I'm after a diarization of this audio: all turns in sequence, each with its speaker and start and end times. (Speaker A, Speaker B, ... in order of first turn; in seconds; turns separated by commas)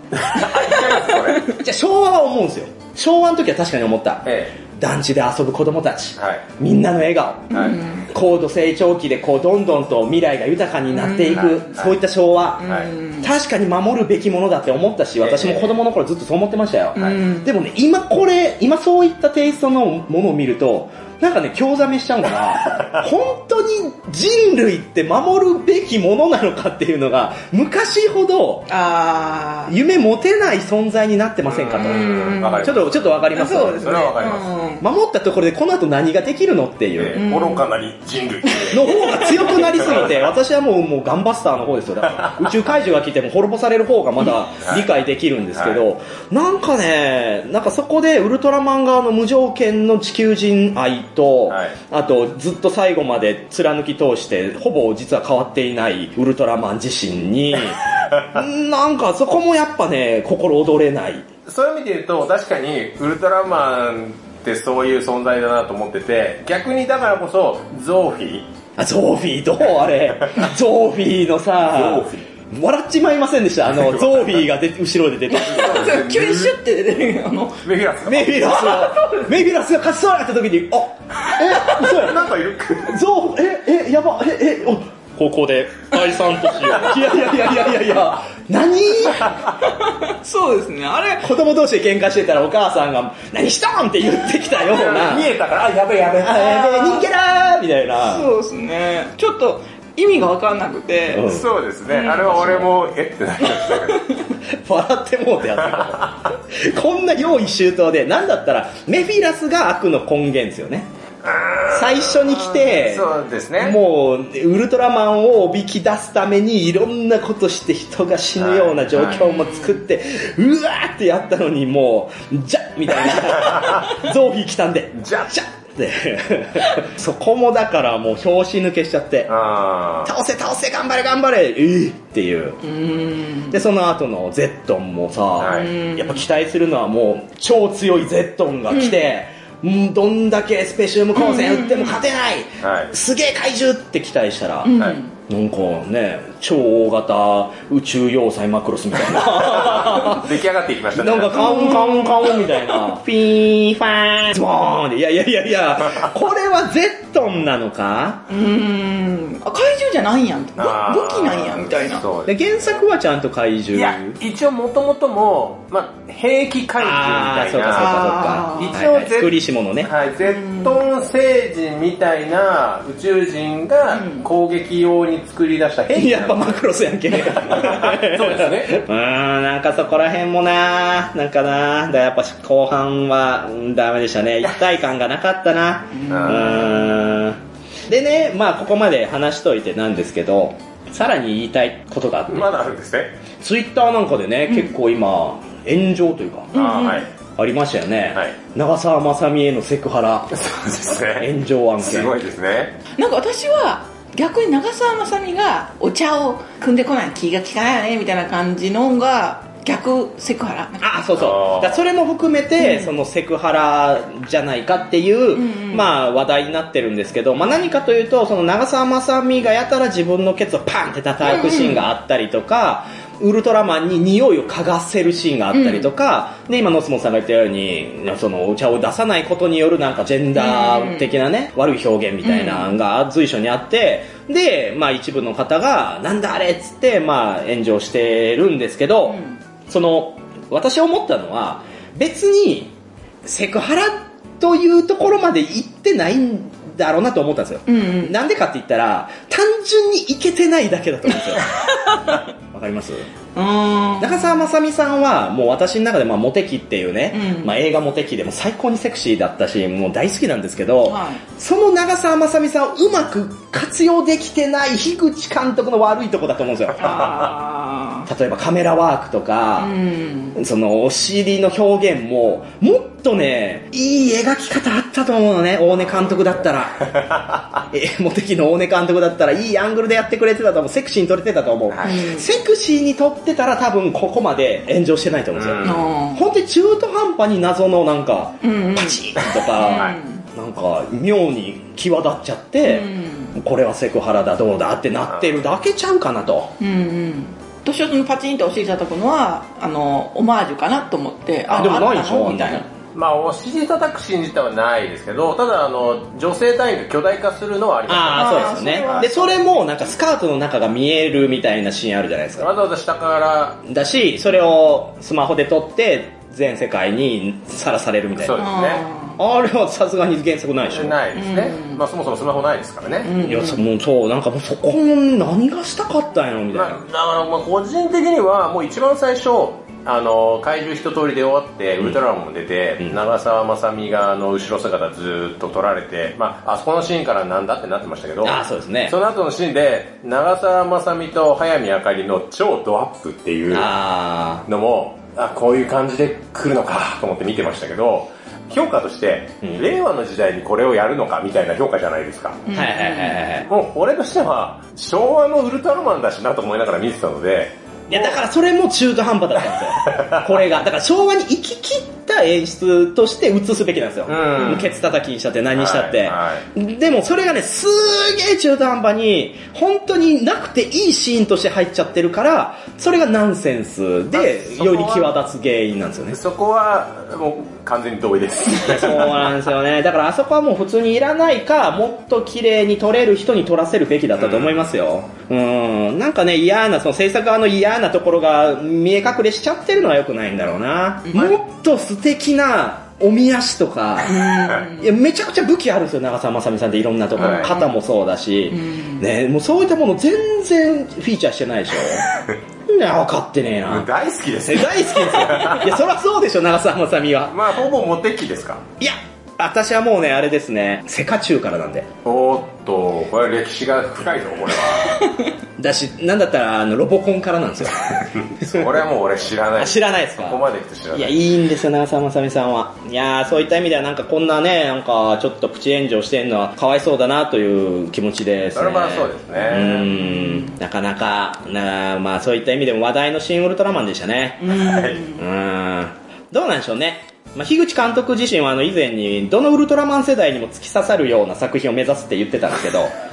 Speaker A: 0.1-1.5, Speaker B: 1.4-7.5, Speaker A: 4.2-4.5, Speaker A: 6.2-6.4, Speaker A: 7.5-7.8, Speaker C: 7.5-8.1, Speaker B: 8.1-12.7, Speaker C: 10.9-11.6, Speaker A: 11.3-11.9, Speaker C: 12.6-13.3, Speaker A: 12.6-12.9, Speaker B: 13.2-28.7, Speaker A: 15.2-15.8, Speaker C: 16.9-17.5, Speaker C: 28.7-29.7, Speaker B: 29.7-34.0, Speaker A: 31.5-34.5, Speaker C: 31.8-32.7, Speaker C: 33.3-34.8, Speaker B: 34.8-37.2, Speaker A: 37.0-39.2, Speaker C: 37.1-37.7, Speaker C: 38.5-39.8, Speaker B: 38.7-61.3, Speaker A: 39.8-40.1, Speaker A: 44.6-44.9, Speaker A: 45.5-45.8, Speaker A: 51.5-51.7, Speaker A: 61.5-68.5, Speaker B: 68.8-75.9, Speaker A: 71.7-72.2, Speaker A: 73.8-74.3, Speaker C: 75.3-77.6, Speaker A: 75.4-76.5, Speaker A: 77.6-78.8, Speaker B: 78.0-82.2, Speaker C: 78.6-79.2, Speaker A: 81.7-83.0, Speaker B: 82.8-85.1, Speaker A: 85.2-87.1, Speaker B: 86.0-89.5, Speaker C: 89.8-91.3, Speaker B: 91.2-95.3, Speaker A: 94.6-96.5, Speaker B: 96.2-98.3, Speaker C: 96.3-97.1, Speaker C: 98.1-101.3, Speaker B: 101.1-101.5, Speaker A: 101.2-104.0, Speaker C: 101.9-102.4, Speaker B: 102.2-102.7, Speaker C: 103.4-104.0, Speaker B: 104.5-110.9, Speaker A: 105.6-106.0, Speaker A: 111.2-113.8, Speaker B: 111.7-129.3, Speaker A: 118.4-119.2, Speaker C: 119.0-119.8, Speaker A: 123.1-123.9, Speaker A: 125.0-125.3, Speaker A: 129.3-130.1, Speaker B: 130.0-132.6, Speaker C: 132.6-133.6, Speaker B: 133.5-150.3, Speaker A: 135.4-135.7, Speaker C: 135.4-136.2, Speaker C: 138.7-139.0, Speaker C: 141.1-142.0, Speaker A: 142.6-142.9, Speaker C: 144.6-145.1, Speaker A: 149.3-151.5, Speaker B: 150.9-158.2, Speaker C: 151.3-152.4, Speaker C: 158.3-162.1, Speaker A: 160.6-162.4, Speaker B: 162.3-164.2, Speaker A: 163.7-178.8, Speaker B: 166.8-169.9, Speaker C: 167.7-168.8, Speaker C: 170.2-170.8, Speaker C: 173.9-174.2, Speaker B: 175.9-192.6, Speaker C: 186.0-187.0, Speaker A: 186.1-186.6, Speaker A: 192.3-193.2, Speaker B: 193.4-196.5, Speaker C: 196.5-197.1, Speaker A: 196.5-197.1, Speaker B: 197.4-200.4, Speaker A: 200.3-202.8, Speaker B: 201.1-202.2, Speaker C: 203.0-210.9, Speaker B: 210.8-251.6, Speaker A: 211.1-211.8, Speaker C: 212.6-212.9, Speaker C: 215.3-215.9, Speaker C: 221.2-221.8, Speaker C: 225.5-225.9, Speaker C: 230.3-231.1, Speaker C: 232.2-232.7, Speaker C: 239.1-239.4, Speaker C: 247.7-248.2, Speaker C: 251.7-252.2, Speaker B: 252.1-253.1, Speaker C: 253.3-254.5, Speaker B: 254.0-267.1, Speaker C: 257.1-257.6, Speaker C: 260.8-261.2, Speaker C: 266.8-268.1, Speaker B: 268.1-269.7, Speaker C: 269.6-270.4, Speaker B: 270.3-277.1, Speaker A: 275.9-276.3, Speaker A: 276.9-277.2, Speaker B: 277.7-296.5, Speaker A: 281.7-282.0, Speaker C: 281.8-282.3, Speaker A: 285.3-285.9, Speaker C: 285.6-286.2, Speaker C: 288.4-289.0, Speaker C: 289.5-290.2, Speaker A: 289.6-290.0, Speaker C: 292.6-293.3, Speaker C: 296.6-302.6, Speaker B: 301.5-302.6, Speaker A: 302.9-309.1, Speaker B: 307.9-312.5, Speaker C: 308.1-309.5, Speaker A: 312.4-313.6, Speaker B: 313.6-318.5, Speaker A: 318.1-318.8, Speaker C: 318.4-319.2, Speaker B: 319.2-321.0, Speaker A: 320.7-323.1, Speaker C: 321.1-321.8, Speaker C: 323.0-323.6, Speaker B: 323.2-326.8, Speaker A: 326.5-343.7, Speaker B: 338.2-338.9, Speaker B: 343.5-344.4, Speaker A: 344.4-352.4, Speaker B: 349.4-349.7, Speaker C: 352.5-353.2, Speaker B: 352.5-353.5, Speaker A: 353.4-358.2, Speaker B: 357.9-376.2, Speaker A: 359.8-360.4, Speaker A: 364.1-364.7, Speaker A: 365.5-366.4, Speaker A: 374.1-375.1, Speaker A: 376.1-379.3, Speaker B: 378.6-402.1, Speaker A: 384.2-384.7, Speaker C: 394.0-394.9, Speaker C: 397.2-397.7, Speaker A: 397.2-397.5, Speaker C: 398.5-399.0, Speaker B: 402.7-403.9, Speaker A: 403.6-405.8, Speaker B: 404.4-407.4, Speaker A: 407.3-408.6, Speaker B: 408.8-411.9, Speaker A: 412.0-415.1, Speaker B: 415.6-418.7, Speaker A: 418.2-421.2, Speaker B: 419.6-442.9, Speaker A: 428.5-429.9, Speaker C: 429.6-430.5, Speaker C: 434.4-435.2, Speaker A: 434.6-435.0